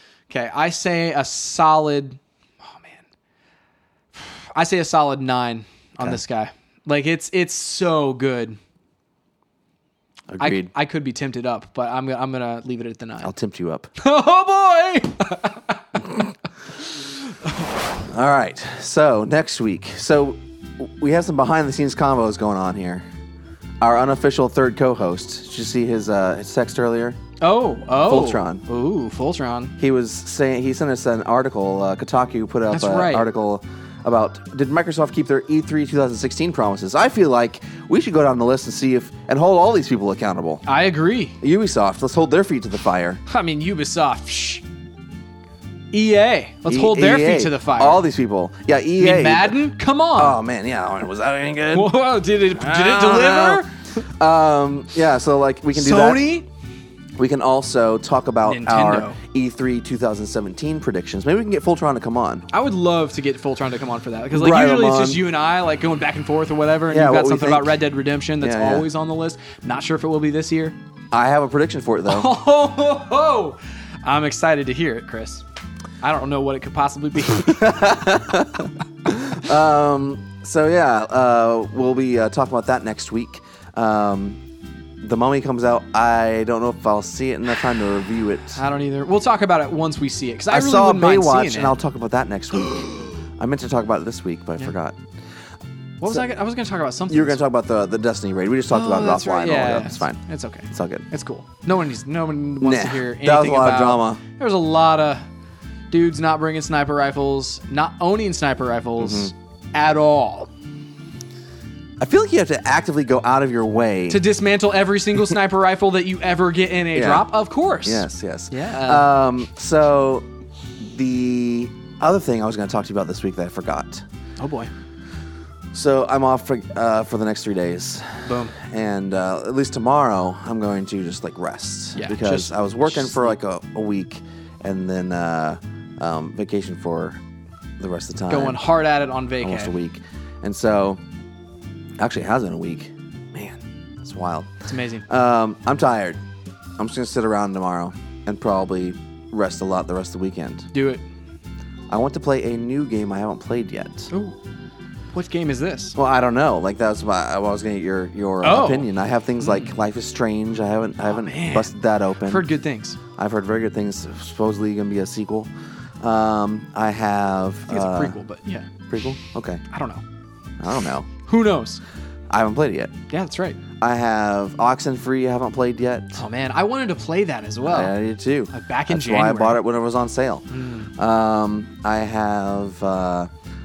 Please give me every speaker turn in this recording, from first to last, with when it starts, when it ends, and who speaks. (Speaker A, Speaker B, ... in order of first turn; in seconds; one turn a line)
Speaker A: 0.3-3.0
Speaker A: 4.2-8.6
Speaker B: 10.3-10.7
Speaker A: 10.4-13.3
Speaker B: 13.2-13.9
Speaker A: 14.0-16.0
Speaker B: 16.0-16.3
Speaker A: 17.3-17.6
Speaker B: 18.0-23.1
Speaker B: 23.8-27.2
Speaker A: 27.4-29.7
Speaker B: 28.0-28.6
Speaker B: 29.8-40.6
Speaker A: 32.7-33.3
Speaker A: 40.7-41.4
Speaker B: 41.4-43.2
Speaker A: 43.3-44.6
Speaker A: 45.9-48.0
Speaker B: 46.7-49.6
Speaker A: 49.0-50.4
Speaker B: 50.2-51.9
Speaker A: 51.7-54.0
Speaker B: 52.5-56.2
Speaker A: 55.7-56.5
Speaker B: 57.2-62.5
Speaker A: 58.5-59.2
Speaker A: 62.5-70.8
Speaker B: 64.3-65.2
Speaker B: 66.9-67.7
Speaker B: 68.4-68.8
Speaker B: 71.1-72.3
Speaker A: 72.1-75.4
Speaker A: 76.0-78.0
Speaker B: 77.3-84.4
Speaker B: 85.0-88.6
Speaker A: 88.5-91.8
Speaker B: 90.5-95.0
Speaker A: 96.0-97.4
Speaker B: 97.1-101.1
Speaker A: 98.7-105.2
Speaker B: 102.6-104.2
Speaker A: 105.9-110.5
Speaker B: 109.0-109.3
Speaker B: 112.0-114.2
Speaker A: 114.1-119.1
Speaker B: 116.9-117.3
Speaker B: 117.8-120.3
Speaker B: 120.8-124.0
Speaker A: 124.4-124.7
Speaker B: 125.7-137.2
Speaker A: 128.2-128.6
Speaker A: 132.0-133.3
Speaker B: 137.8-138.6
Speaker A: 138.3-139.7
Speaker B: 139.4-141.0
Speaker B: 142.0-144.5
Speaker A: 144.7-145.1
Speaker B: 145.1-146.2
Speaker B: 146.8-150.7
Speaker A: 150.7-151.1
Speaker B: 151.9-154.1
Speaker A: 154.1-154.4
Speaker A: 155.1-156.0
Speaker B: 156.0-162.5
Speaker A: 158.4-158.9
Speaker A: 159.4-159.7
Speaker A: 161.1-161.7
Speaker A: 162.2-163.0
Speaker B: 163.2-165.5
Speaker B: 166.0-168.2
Speaker A: 167.7-168.7
Speaker B: 168.9-169.6
Speaker A: 169.7-170.0
Speaker B: 170.6-171.1
Speaker A: 171.2-171.8
Speaker B: 172.3-172.9
Speaker A: 173.1-173.6
Speaker B: 173.8-176.2
Speaker A: 176.2-177.9
Speaker B: 177.6-180.5
Speaker A: 178.5-179.6
Speaker A: 180.5-180.9
Speaker B: 181.0-183.3